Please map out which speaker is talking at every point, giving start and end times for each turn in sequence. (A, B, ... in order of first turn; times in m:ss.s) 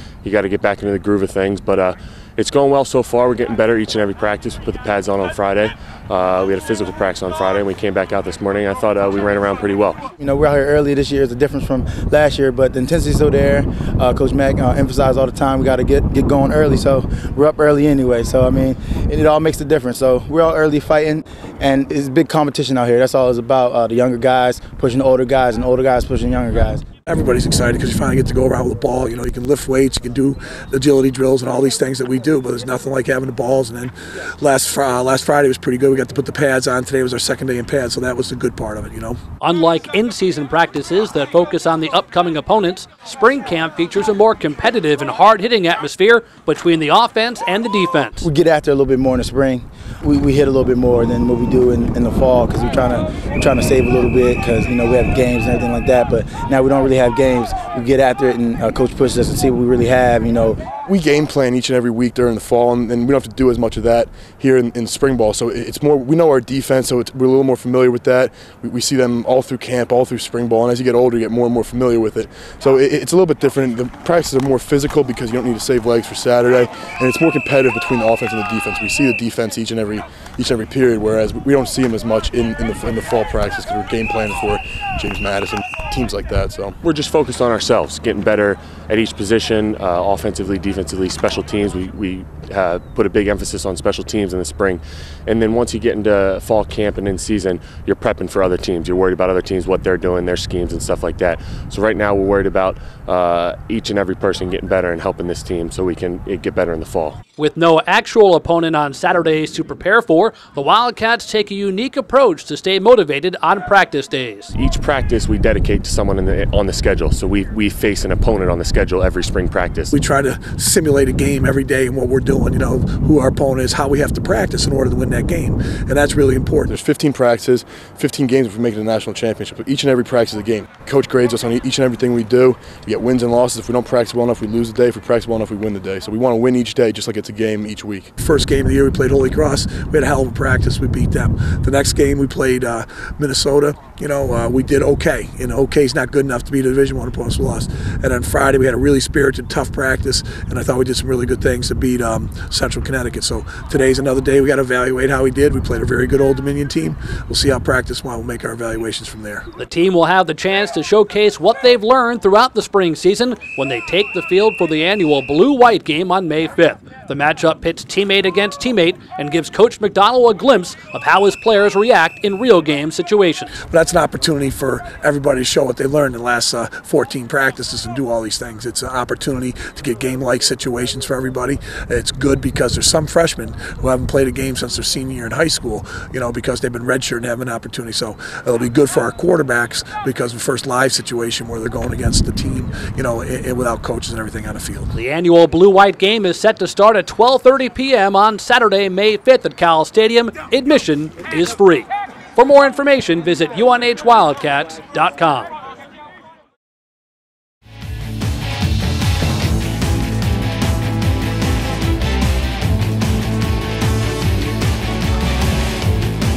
0:00.2-0:10.0 A
0:10.2-0:26.8 B
0:27.1-0:39.2 C
0:39.4-0:48.3 D
0:48.2-1:00.6 B
1:00.9-1:26.8 E
1:26.8-1:47.2 A
1:47.4-1:54.5 D
1:54.5-2:00.0 A
1:59.9-2:06.7 C
2:06.7-2:18.1 E
2:18.2-2:39.4 C
2:39.6-2:53.6 D
2:53.7-3:14.9 C
3:14.9-3:25.5 D